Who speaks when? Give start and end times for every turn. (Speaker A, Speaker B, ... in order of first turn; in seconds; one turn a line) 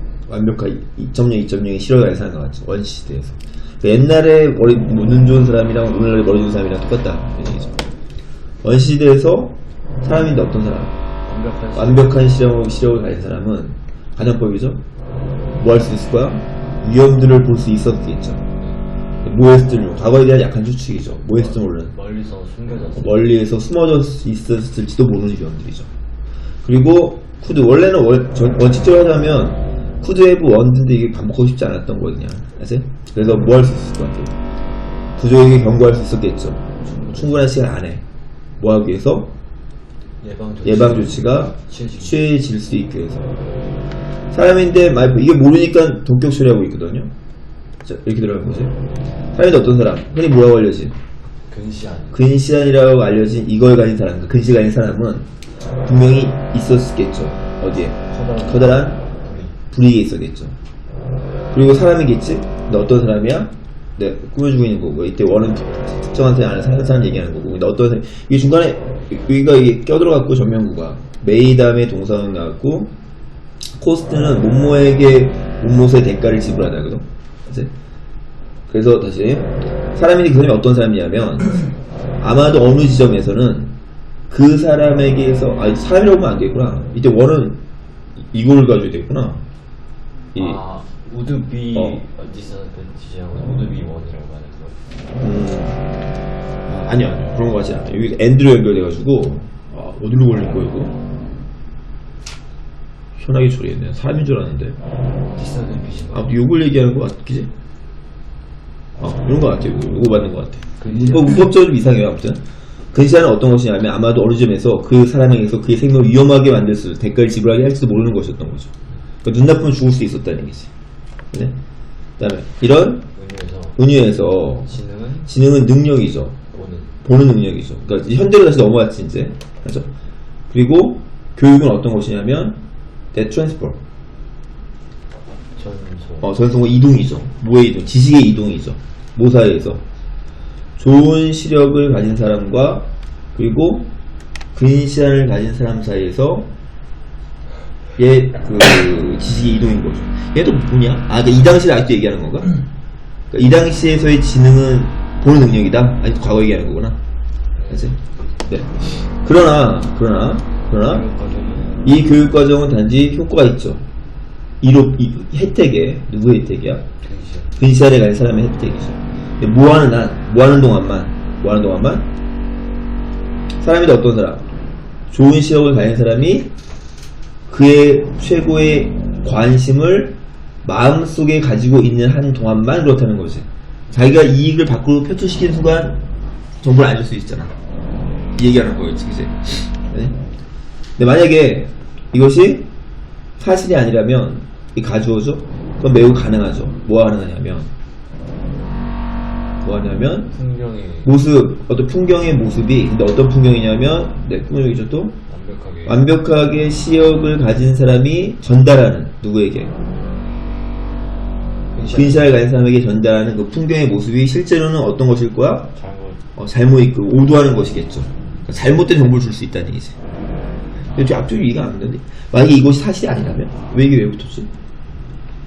Speaker A: 0.3-7.8
Speaker A: 8.6-10.9
Speaker B: 11.2-12.2
Speaker A: 11.7-14.8
Speaker A: 15.5-18.4
Speaker B: 18.5-18.8
Speaker A: 19.2-21.9
Speaker B: 21.3-23.3
Speaker A: 22.9-25.9
Speaker A: 26.6-34.3
Speaker A: 35.2-38.0
Speaker B: 36.8-37.5
Speaker A: 38.6-39.3
Speaker B: 40.2-42.3
Speaker A: 40.6-43.2
Speaker A: 44.3-47.1
Speaker A: 47.8-48.7
Speaker A: 49.3-51.0
Speaker B: 51.5-52.2
Speaker A: 52.1-55.3
Speaker A: 55.9-59.0
Speaker B: 58.0-59.6
Speaker A: 59.7-60.5
Speaker A: 61.5-72.9
Speaker A: 73.8-77.7
Speaker A: 78.7-83.7
Speaker A: 84.3-87.6
Speaker A: 88.2-89.4
Speaker A: 90.3-90.6
Speaker B: 90.3-94.8
Speaker A: 91.7-92.0
Speaker A: 95.2-95.8
Speaker A: 96.7-101.0
Speaker A: 103.2-104.8
Speaker B: 105.3-106.3
Speaker A: 106.1-107.5
Speaker A: 109.0-112.4
Speaker B: 110.8-111.4
Speaker A: 112.9-118.7
Speaker A: 119.2-120.7
Speaker A: 122.2-123.1
Speaker B: 123.1-123.8
Speaker A: 123.8-124.7
Speaker B: 124.7-125.3
Speaker A: 125.2-126.4
Speaker B: 126.5-127.0
Speaker A: 127.0-129.9
Speaker A: 130.5-132.6
Speaker A: 133.1-133.8
Speaker B: 135.6-136.3
Speaker A: 136.2-139.8
Speaker A: 140.8-143.9
Speaker A: 144.5-146.5
Speaker A: 148.0-152.5
Speaker A: 153.3-157.0
Speaker B: 157.6-158.4
Speaker A: 157.7-161.0
Speaker B: 160.7-161.9
Speaker A: 161.8-163.8
Speaker A: 164.6-166.8
Speaker B: 167.0-167.5
Speaker A: 167.6-172.1
Speaker A: 173.6-174.4
Speaker A: 175.1-176.5
Speaker A: 177.5-186.0
Speaker A: 186.6-187.5
Speaker A: 188.4-190.2
Speaker A: 191.0-192.7
Speaker A: 193.4-197.7
Speaker A: 199.6-200.3
Speaker B: 200.3-201.1
Speaker A: 201.0-205.2
Speaker B: 205.3-206.0
Speaker A: 205.8-209.7
Speaker B: 211.7-212.3
Speaker A: 211.9-215.7
Speaker B: 215.7-216.2
Speaker A: 216.3-219.9
Speaker A: 220.9-224.5